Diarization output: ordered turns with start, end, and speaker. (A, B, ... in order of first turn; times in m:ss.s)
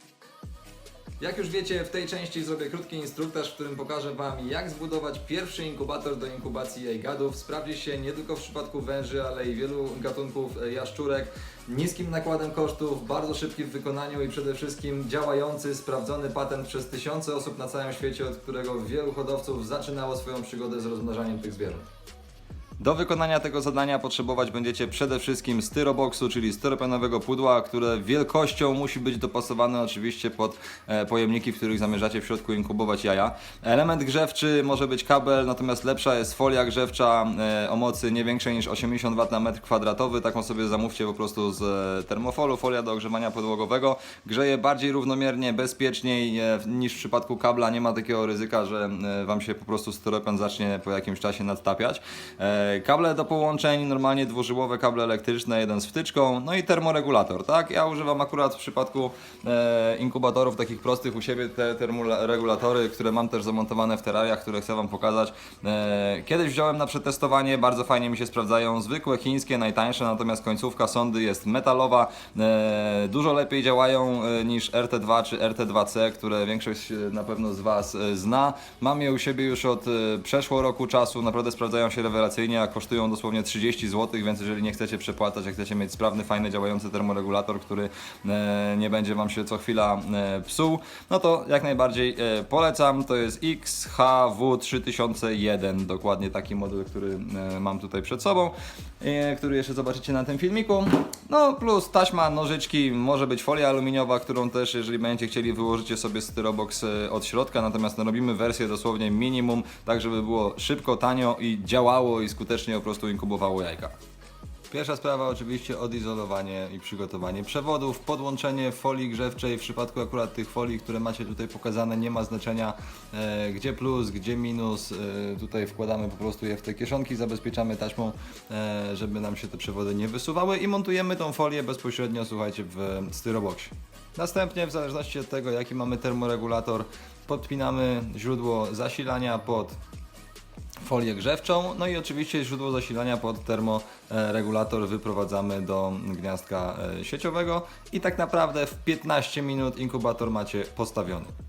0:01.2-0:21.8 A
0:22.8-1:53.9 A
1:54.7-2:19.8 A
2:20.8-2:31.3 A